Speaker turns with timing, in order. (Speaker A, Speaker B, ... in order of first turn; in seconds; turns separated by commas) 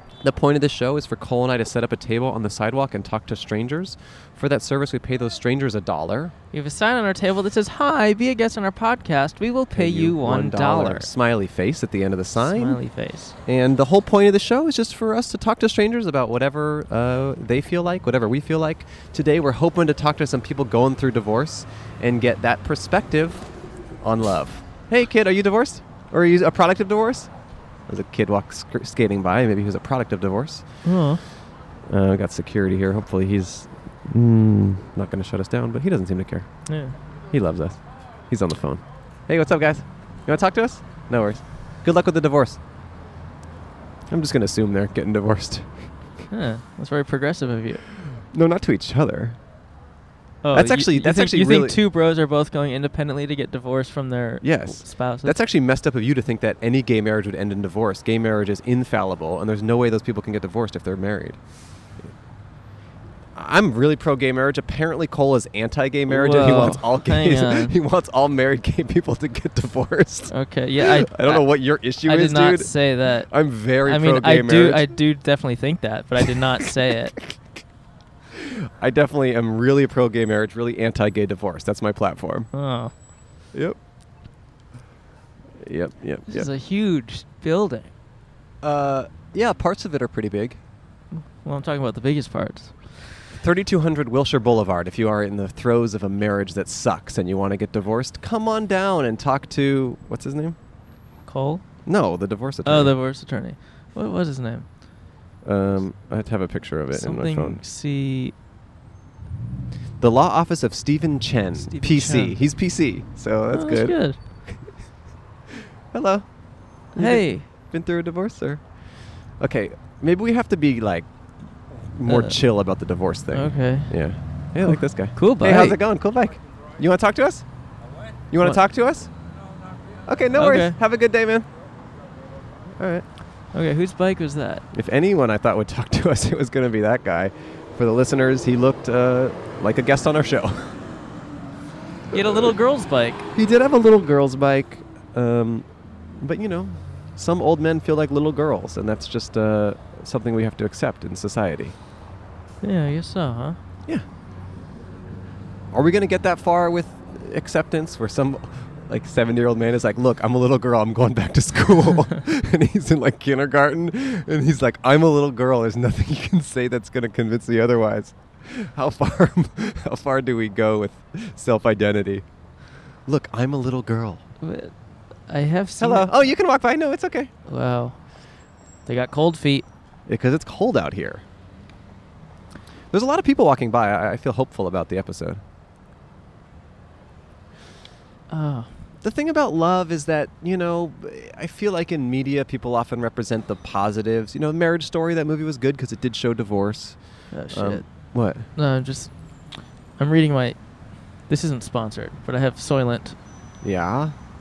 Speaker A: 0.2-6.3, Speaker B: 6.5-11.1, Speaker A: 9.7-12.8, Speaker B: 12.3-13.3, Speaker A: 13.4-23.5, Speaker A: 24.0-27.3, Speaker A: 27.9-30.6, Speaker B: 30.8-31.2, Speaker A: 31.9-36.5, Speaker B: 36.7-37.0, Speaker A: 37.3-42.6, Speaker A: 44.1-45.9, Speaker B: 46.3-47.8, Speaker A: 48.3-49.4, Speaker B: 50.4-55.4, Speaker A: 50.5-51.8, Speaker A: 54.4-61.4, Speaker A: 63.3-75.0, Speaker B: 66.1-67.8, Speaker B: 70.3-77.2, Speaker A: 78.3-82.5, Speaker B: 82.5-82.9, Speaker A: 83.5-83.8, Speaker A: 85.6-86.5, Speaker B: 86.3-87.9, Speaker A: 88.6-90.6, Speaker B: 91.1-93.0, Speaker A: 93.3-100.6, Speaker B: 101.2-101.6, Speaker A: 101.8-102.9, Speaker B: 102.6-104.7, Speaker A: 105.4-107.6, Speaker B: 106.9-108.3, Speaker A: 110.0-114.6, Speaker B: 111.6-112.4, Speaker B: 113.5-114.2, Speaker A: 115.9-121.1, Speaker B: 116.9-117.5, Speaker A: 121.7-127.4, Speaker B: 122.1-122.4, Speaker B: 123.3-124.0, Speaker B: 124.6-125.8, Speaker A: 128.3-129.1, Speaker A: 130.0-131.5, Speaker B: 130.4-130.8, Speaker A: 132.8-133.1, Speaker B: 133.5-134.6, Speaker A: 134.7-140.8, Speaker A: 142.1-142.6, Speaker B: 142.1-143.3, Speaker A: 143.3-151.8, Speaker B: 152.6-153.6, Speaker A: 155.7-172.2, Speaker A: 173.1-174.2, Speaker B: 174.4-176.1, Speaker A: 175.8-177.3, Speaker B: 177.4-178.1, Speaker B: 178.8-179.6, Speaker A: 180.1-181.2, Speaker A: 182.9-185.4, Speaker B: 188.3-188.7, Speaker A: 189.0-198.5, Speaker B: 197.3-197.9, Speaker B: 198.5-199.1, Speaker B: 199.9-200.6, Speaker B: 201.2-203.2, Speaker A: 203.6-204.1